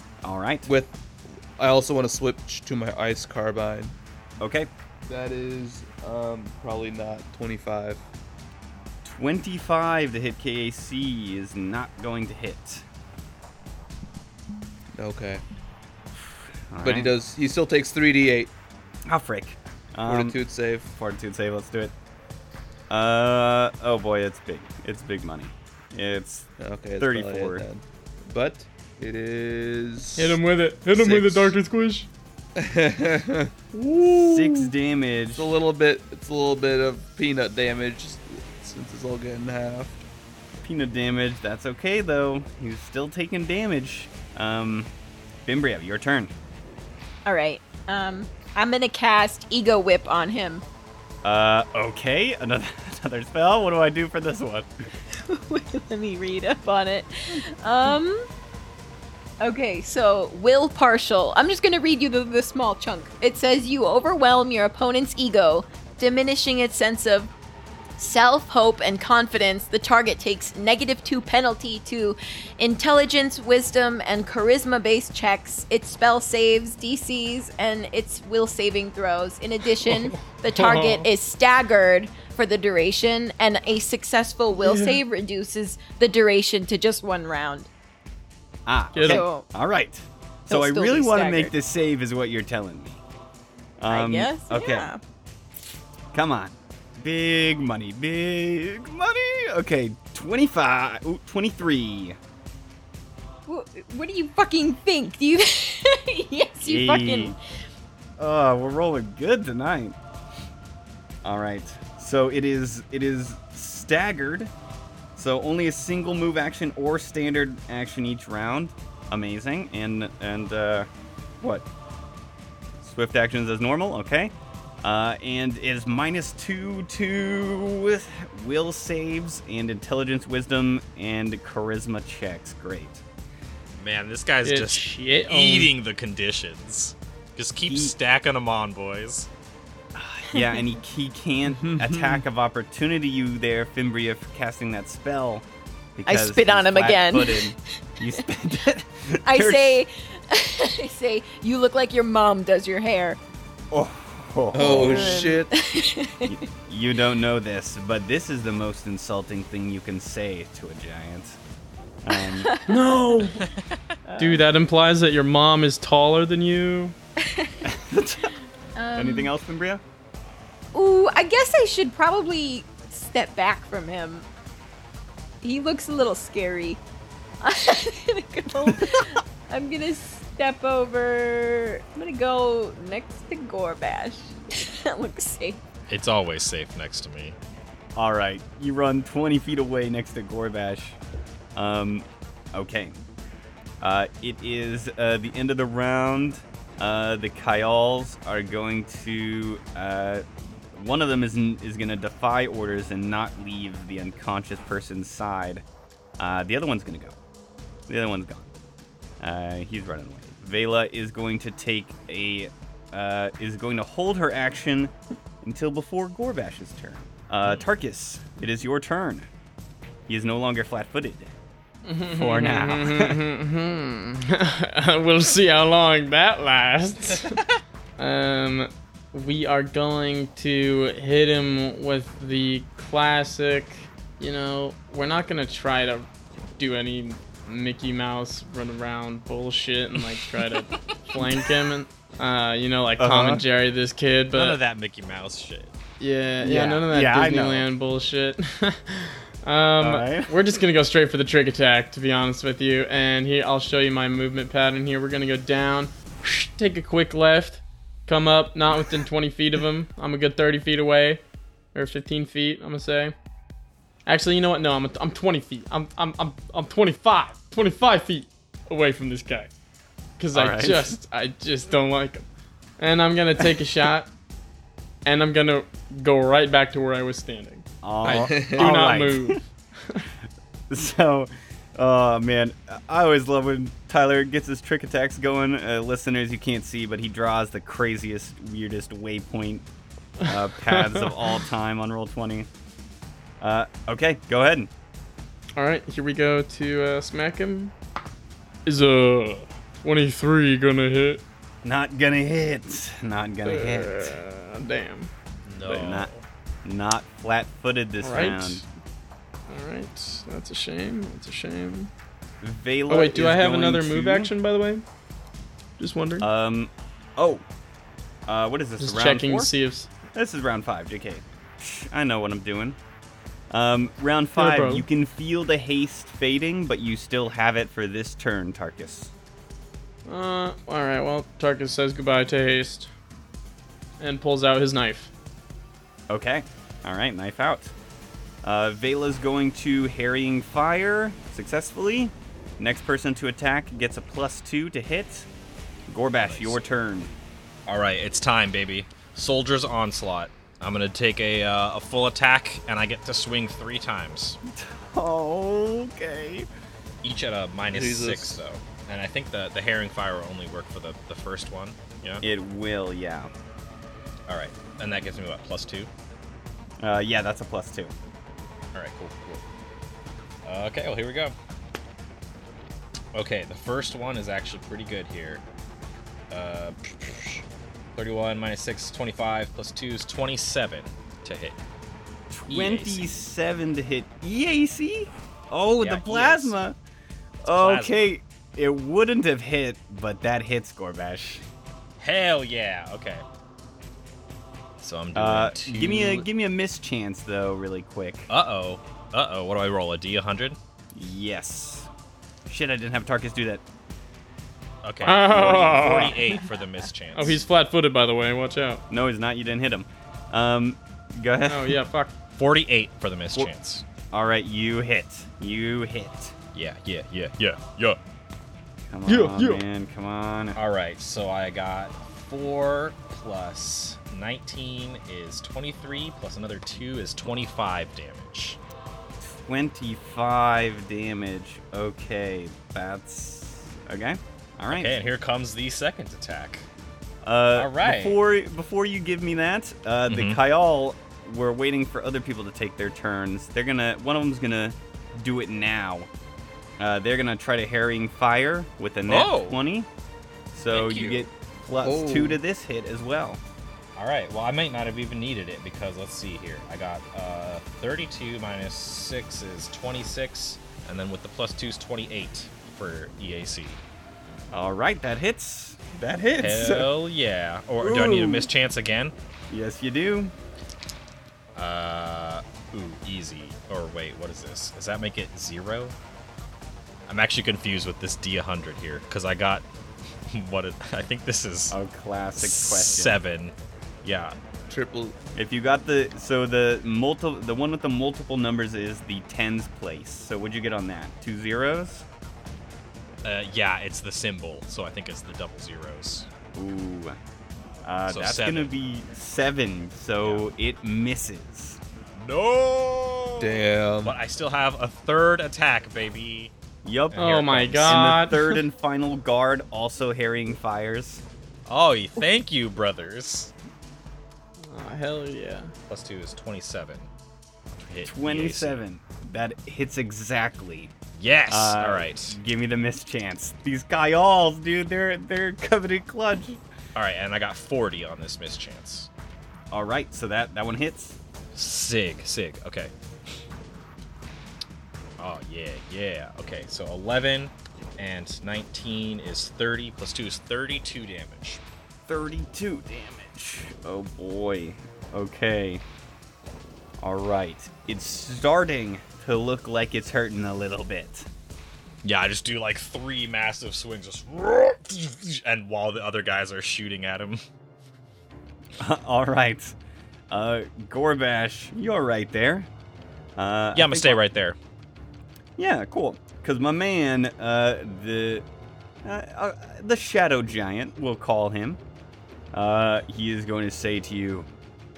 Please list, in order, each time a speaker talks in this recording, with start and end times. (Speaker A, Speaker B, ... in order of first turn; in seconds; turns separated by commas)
Speaker A: 0.2-0.7, Speaker B: 0.7-1.0, Speaker B: 1.6-4.0, Speaker A: 4.4-4.7, Speaker B: 5.1-8.0, Speaker A: 9.0-12.8, Speaker B: 14.9-15.4, Speaker A: 16.2-17.1, Speaker B: 16.8-18.5, Speaker A: 19.1-20.4, Speaker B: 20.1-20.9, Speaker A: 20.9-21.9, Speaker A: 22.9-26.5, Speaker B: 26.6-30.4, Speaker A: 27.0-27.7, Speaker C: 30.2-32.1, Speaker B: 30.9-31.6, Speaker B: 32.6-33.5, Speaker A: 34.0-35.5, Speaker B: 34.2-34.5, Speaker B: 35.3-40.0, Speaker A: 40.6-44.9, Speaker A: 45.5-46.3, Speaker D: 47.2-50.6, Speaker A: 51.2-54.7, Speaker D: 55.1-58.2, Speaker D: 59.4-67.3, Speaker D: 68.0-87.7, Speaker C: 80.5-81.1, Speaker C: 84.5-85.0, Speaker A: 88.7-93.0, Speaker C: 88.9-89.2, Speaker D: 89.0-89.5, Speaker D: 90.5-91.5, Speaker A: 93.8-94.9, Speaker D: 93.9-95.0, Speaker A: 96.1-102.2, Speaker D: 103.5-107.4, Speaker A: 106.6-107.4, Speaker A: 108.2-110.0, Speaker A: 111.2-114.5, Speaker A: 115.2-120.9, Speaker A: 121.4-121.6, Speaker A: 122.8-133.0, Speaker E: 133.8-139.3, Speaker C: 134.4-135.7, Speaker A: 137.6-137.9, Speaker A: 139.9-145.4, Speaker B: 141.6-142.2, Speaker A: 145.9-149.8, Speaker D: 146.1-147.5, Speaker D: 149.2-153.2, Speaker A: 153.7-155.3, Speaker B: 154.5-155.5, Speaker D: 154.6-156.4, Speaker A: 156.2-161.4, Speaker A: 162.0-162.5, Speaker D: 162.1-162.8, Speaker C: 162.7-163.5, Speaker E: 163.4-163.8, Speaker D: 164.1-164.4, Speaker C: 164.2-166.9, Speaker D: 167.2-167.6, Speaker A: 167.6-168.3, Speaker D: 168.8-169.3, Speaker A: 168.9-169.8, Speaker D: 170.7-174.3, Speaker D: 175.4-176.8, Speaker D: 177.4-185.6, Speaker A: 178.7-179.0, Speaker E: 185.9-187.4, Speaker A: 187.9-191.0, Speaker A: 191.6-192.9, Speaker A: 193.8-205.6, Speaker A: 206.2-207.2, Speaker A: 207.9-208.5, Speaker A: 209.2-219.3, Speaker A: 220.1-221.3, Speaker C: 221.8-227.4, Speaker A: 222.1-223.2, Speaker C: 228.0-236.1, Speaker C: 236.6-244.6, Speaker A: 243.0-243.4, Speaker E: 244.3-245.7, Speaker C: 246.0-261.2, Speaker A: 246.4-247.7, Speaker A: 249.8-250.4, Speaker C: 261.7-263.1, Speaker C: 264.1-269.5, Speaker C: 270.2-272.2, Speaker A: 270.3-271.0, Speaker C: 272.8-274.1, Speaker C: 275.1-280.1, Speaker A: 277.8-279.4, Speaker B: 278.0-278.9, Speaker A: 280.7-289.6, Speaker C: 290.2-291.4, Speaker A: 290.2-292.5, Speaker A: 293.4-294.7, Speaker C: 295.6-297.7, Speaker C: 298.7-301.2, Speaker A: 301.6-304.2, Speaker C: 303.4-305.1, Speaker E: 305.4-306.2, Speaker A: 305.6-306.1, Speaker A: 306.6-308.6, Speaker C: 308.0-308.6, Speaker C: 309.5-311.9, Speaker A: 312.4-314.3, Speaker C: 312.9-314.9, Speaker C: 315.8-316.3, Speaker A: 316.2-317.4, Speaker A: 318.3-319.5, Speaker C: 318.8-319.9, Speaker A: 320.1-322.8, Speaker A: 323.5-329.1, Speaker C: 324.4-324.9, Speaker C: 330.1-332.9, Speaker C: 334.0-335.1, Speaker A: 336.1-337.7, Speaker A: 338.4-345.3, Speaker A: 345.9-347.1, Speaker E: 346.2-346.6, Speaker E: 347.7-354.4, Speaker A: 354.5-356.5, Speaker E: 357.0-362.2, Speaker B: 357.7-358.4, Speaker A: 362.2-363.3, Speaker E: 364.3-365.9, Speaker A: 366.8-367.9, Speaker E: 368.8-369.4, Speaker E: 370.4-371.3, Speaker E: 373.1-375.4, Speaker E: 376.3-377.4, Speaker E: 377.9-381.6, Speaker A: 382.3-386.8, Speaker E: 382.5-383.2, Speaker E: 385.8-386.6, Speaker A: 387.4-391.4, Speaker E: 387.5-388.0, Speaker E: 392.0-393.2, Speaker E: 394.8-396.3, Speaker A: 395.1-398.3, Speaker E: 398.3-400.6, Speaker A: 400.9-401.9, Speaker A: 402.5-403.6, Speaker E: 404.8-407.4, Speaker C: 405.0-406.4, Speaker C: 407.1-408.8, Speaker A: 408.9-411.9, Speaker C: 411.5-412.1, Speaker E: 412.4-413.8, Speaker A: 414.1-416.4, Speaker E: 416.5-418.0, Speaker A: 418.9-420.6, Speaker C: 419.1-419.6, Speaker E: 420.6-428.6, Speaker A: 429.2-435.0, Speaker E: 434.7-436.7, Speaker A: 437.2-446.1, Speaker E: 437.6-438.2, Speaker E: 440.1-440.4, Speaker A: 446.8-449.9, Speaker E: 449.1-449.6, Speaker A: 450.5-453.4, Speaker E: 450.7-451.2, Speaker E: 451.9-452.1, Speaker E: 453.9-463.8, Speaker A: 464.5-466.9, Speaker E: 466.4-469.1, Speaker A: 467.8-468.5, Speaker A: 469.5-470.3, Speaker E: 471.6-475.9, Speaker E: 477.1-479.7, Speaker E: 480.3-481.8, Speaker A: 481.7-483.2, Speaker E: 482.4-484.4, Speaker B: 484.7-485.2, Speaker A: 485.4-492.1, Speaker E: 493.2-496.3, Speaker A: 496.5-497.2, Speaker A: 497.8-501.8, Speaker E: 498.1-498.7, Speaker E: 500.2-500.5, Speaker E: 502.2-506.5, Speaker B: 503.4-504.1, Speaker A: 506.8-511.2, Speaker E: 507.1-508.3, Speaker C: 507.2-508.6, Speaker E: 511.7-513.5, Speaker C: 514.6-515.7, Speaker E: 515.9-517.1, Speaker E: 517.8-518.8, Speaker A: 518.0-520.9, Speaker E: 521.2-522.4, Speaker A: 521.5-526.6, Speaker E: 527.0-529.1, Speaker A: 529.7-531.2, Speaker E: 531.5-532.9, Speaker E: 535.2-541.6, Speaker A: 542.1-545.8, Speaker A: 547.0-551.3, Speaker E: 552.0-557.4, Speaker A: 558.8-559.8, Speaker A: 560.3-562.7, Speaker A: 563.4-564.2, Speaker E: 563.7-564.6, Speaker A: 565.6-568.5, Speaker A: 569.0-571.8, Speaker A: 572.5-574.5